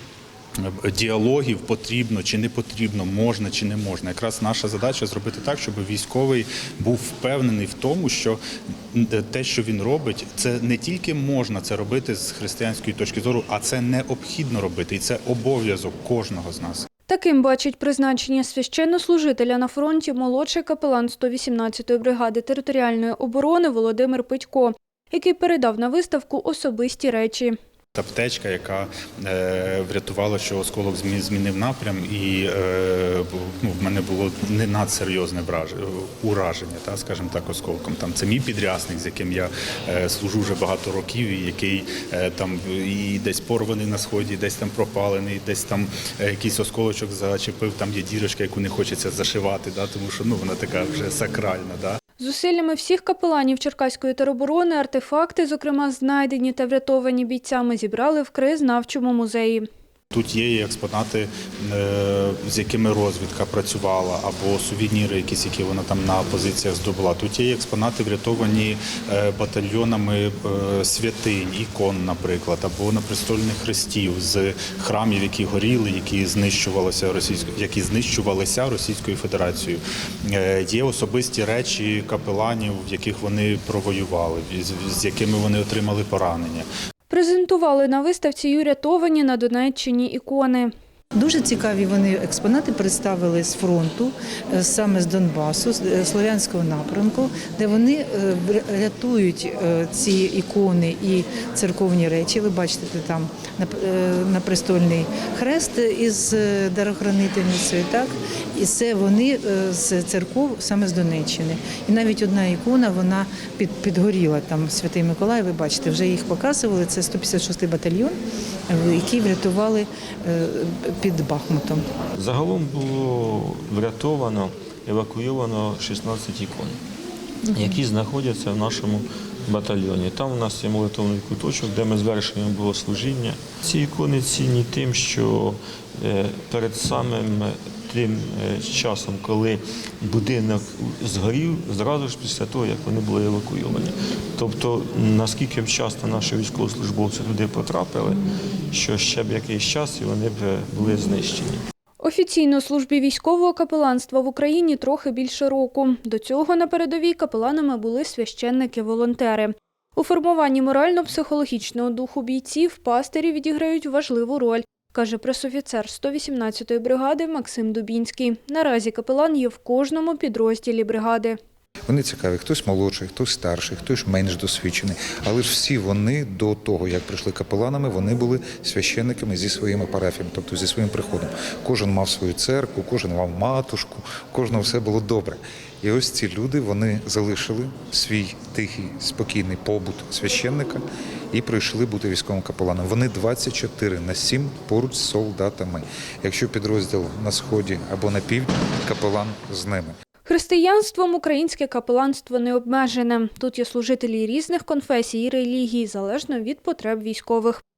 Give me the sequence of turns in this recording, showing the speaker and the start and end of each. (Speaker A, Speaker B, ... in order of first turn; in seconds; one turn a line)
Speaker A: 0.6-8.4
Speaker A: 8.9-16.9
Speaker B: 17.1-27.6
Speaker A: 27.9-52.0
Speaker B: 52.2-59.6
Speaker A: 60.1-86.7
Speaker B: 87.1-90.7
Speaker C: 91.2-118.2
Speaker C: 118.7-121.8
Speaker D: 122.1-126.8
Speaker D: 127.5-151.6
Speaker B: 152.0-171.4
Speaker E: 171.9-199.9
Speaker B: 200.2-207.6